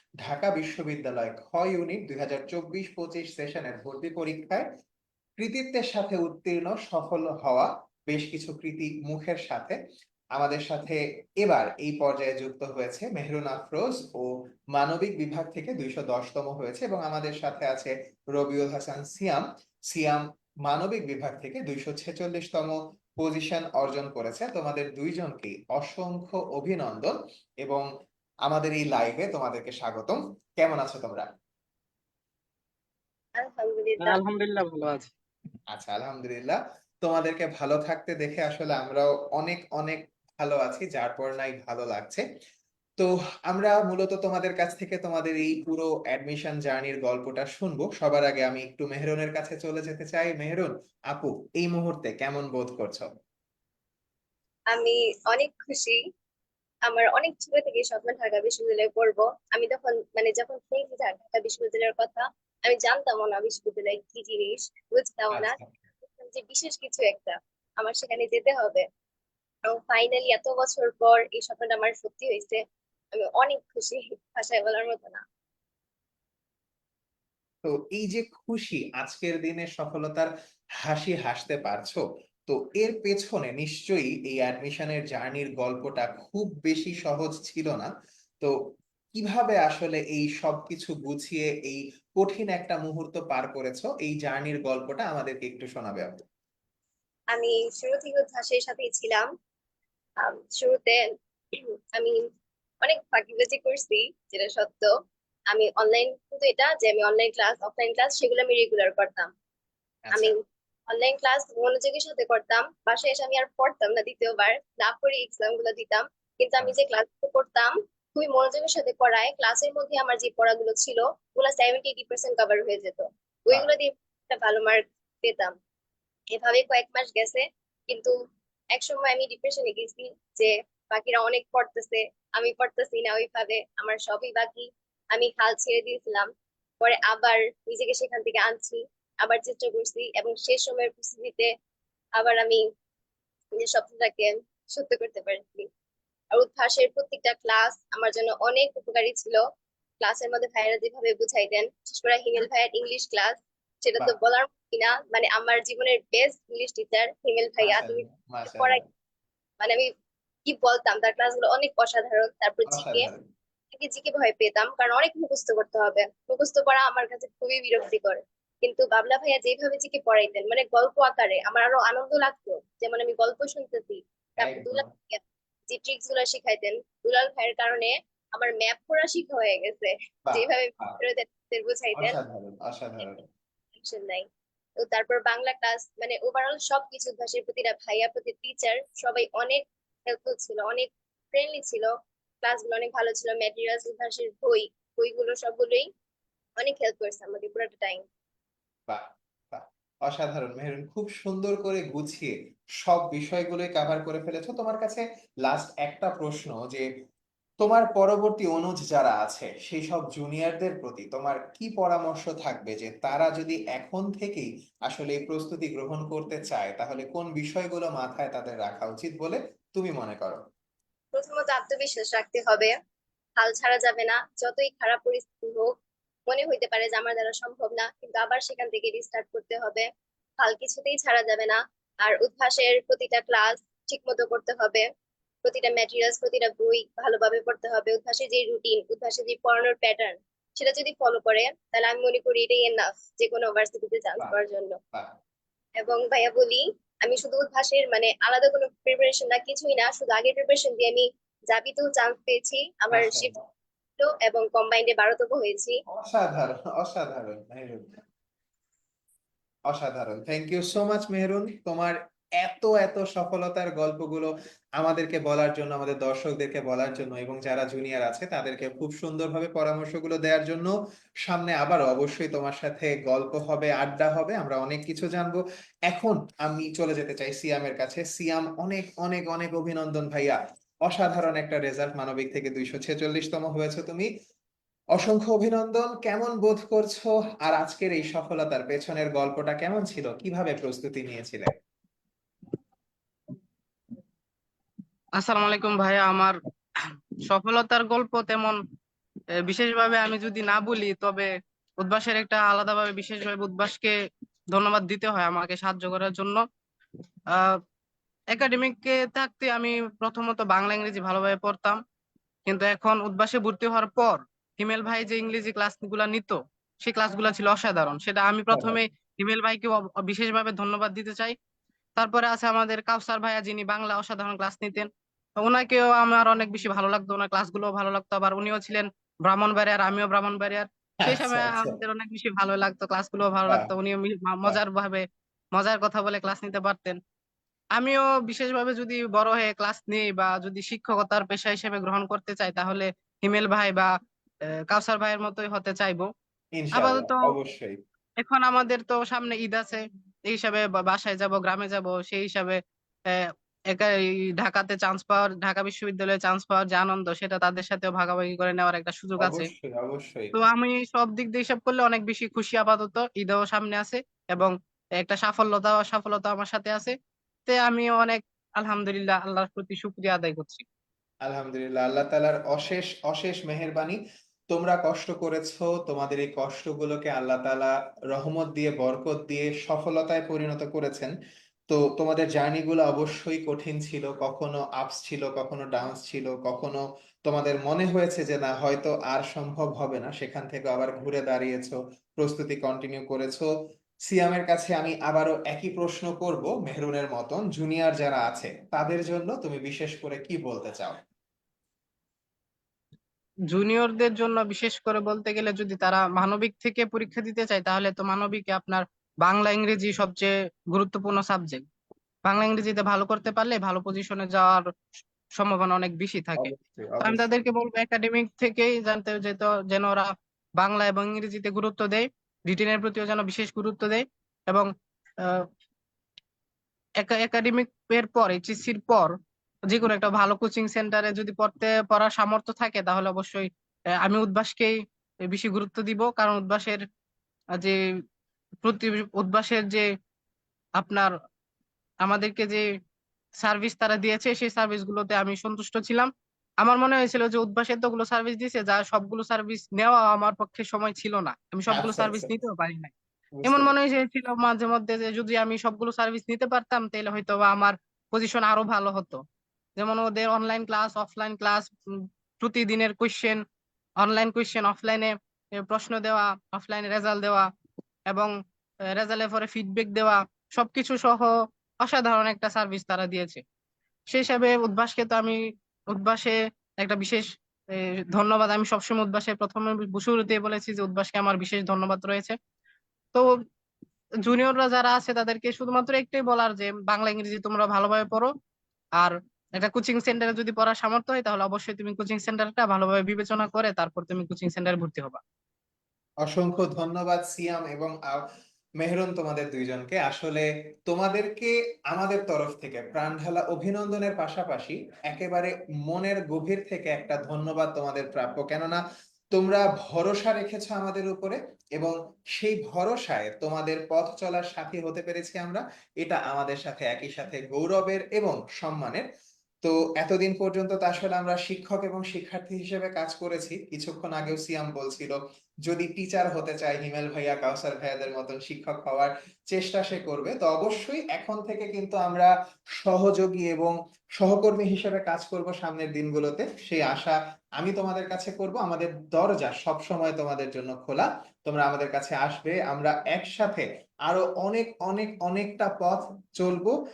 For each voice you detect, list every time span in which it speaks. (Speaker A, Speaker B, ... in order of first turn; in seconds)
Speaker A: 0.2-4.7, 5.4-9.8, 10.3-27.9, 28.5-31.3, 35.7-42.2, 43.0-53.1, 65.3-65.7, 77.6-80.3, 80.8-87.9, 89.2-96.2, 110.1-110.3, 157.6-158.8, 162.7-163.2, 174.4-174.9, 180.3-181.0, 182.0-183.2, 198.9-206.9, 207.6-220.4, 252.9-253.4, 255.9-258.0, 259.7-270.7, 271.2-284.1, 284.9-291.5, 318.5-318.8, 331.0-331.8, 346.6-347.8, 359.2-360.4, 371.3-374.0, 374.5-381.1, 381.7-393.5, 394.1-401.0, 416.4-417.3, 451.7-452.3, 453.3-453.8, 496.2-498.2, 498.8-508.8, 509.3-519.1, 519.6-532.3, 532.8-546.7
Speaker B: 33.4-34.2, 54.7-56.0, 56.9-65.6, 66.2-68.8, 69.7-72.6, 73.2-75.2, 97.3-99.3, 100.2-101.0, 101.6-102.2, 102.8-104.9, 105.5-109.3, 110.1-110.4, 110.9-125.5, 126.3-128.1, 128.7-136.3, 136.8-141.5, 142.2-142.7, 143.6-145.7, 146.3-149.4, 150.0-158.8, 160.5-163.1, 163.7-175.2, 175.7-182.2, 183.8-184.3, 184.8-191.9, 192.4-195.9, 196.6-198.0, 221.1-222.7, 223.4-225.8, 226.3-229.9, 230.4-234.9, 235.4-244.8, 245.8-253.3, 254.0-255.8
Speaker C: 34.0-35.1, 295.2-296.4, 297.3-298.6, 299.4-303.9, 304.5-306.4, 307.3-307.6, 308.3-311.8, 312.5-321.4, 322.0-324.9, 325.4-337.0, 337.8-343.9, 344.7-346.1, 346.7-347.4, 348.2-352.6, 353.1-359.4, 360.3-366.9, 367.5-370.6, 403.5-411.7, 412.2-414.6, 415.4-424.7, 425.2-425.5, 427.0-429.1, 429.7-433.5, 434.0-434.8, 435.3-436.8, 438.6-439.9, 440.8-441.1, 442.0-442.6, 443.4-446.1, 446.6-459.2, 459.8-461.7, 462.4-463.4, 464.0-467.5, 468.9-471.3, 471.8-473.4, 474.1-475.4, 475.9-482.4, 484.2-488.3, 489.0-495.2